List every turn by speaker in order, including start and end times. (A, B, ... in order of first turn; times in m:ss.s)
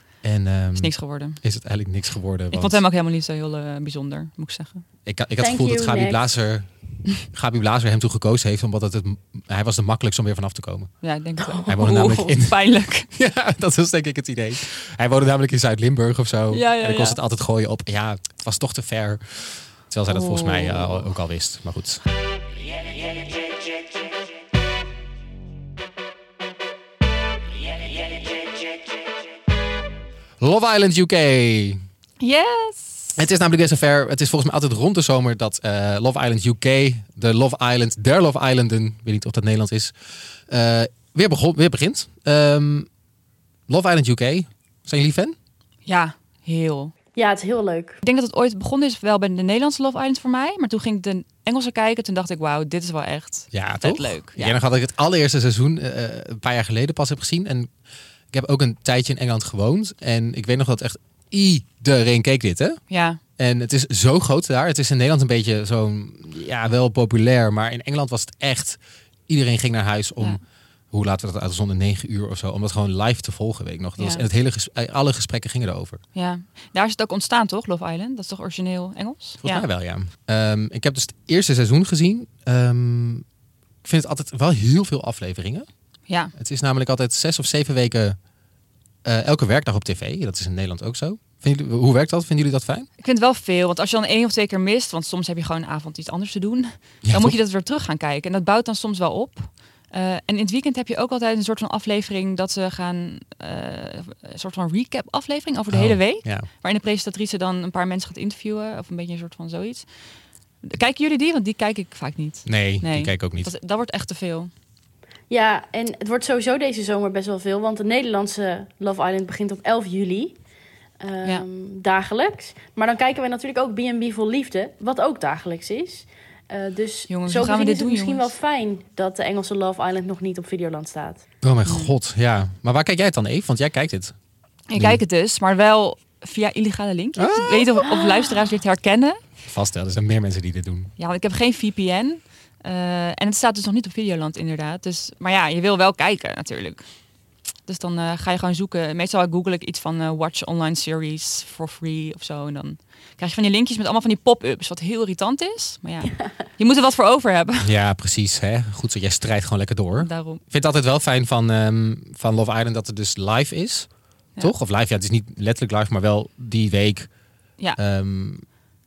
0:00.2-0:02.8 A
0:00.7-0:01.4 B
0:02.5-0:04.8 B
0:05.0-0:10.9 A
0:05.4-0:06.2 C
0:11.0-0:13.1 B
0:11.6-0:22.0 A
0:16.5-0:17.2 B
0:20.1-0:21.1 B
0:30.4-0:31.8 A
0:32.2-0:33.2 B
0:33.2-0:39.9 A
0:40.5-0:42.9 A
0:43.7-0:45.4 A
0:45.8-0:46.9 B
0:47.1-0:48.0 C
0:48.0-0:54.6 B
0:53.5-0:57.7 A
0:58.3-1:02.8 A
1:02.9-1:03.2 B
1:03.4-1:10.4 A
1:10.9-1:16.0 A
1:14.0-1:14.2 B
1:16.1-1:19.6 B
1:19.4-1:23.2 A
1:23.8-1:25.7 A
1:26.1-1:26.3 B
1:26.4-1:28.2 A
1:29.0-1:32.9 A
1:33.0-1:49.9 B
1:37.0-1:37.4 A
1:45.7-1:46.5 A
1:50.6-1:54.5 B
1:52.4-1:53.5 A
1:55.3-2:00.4 C
2:01.0-2:11.2 C
2:07.1-2:08.3 B
2:11.4-2:14.1 A
2:11.6-2:11.9 B
2:14.7-2:19.2 B
2:14.7-2:15.0 A
2:17.2-2:17.8 A
2:17.8-2:18.3 C
2:19.4-2:20.9 A
2:21.0-2:26.9 B
2:27.6-2:37.7 B
2:37.6-2:47.1 A
2:40.0-2:40.4 B
2:47.8-2:48.4 A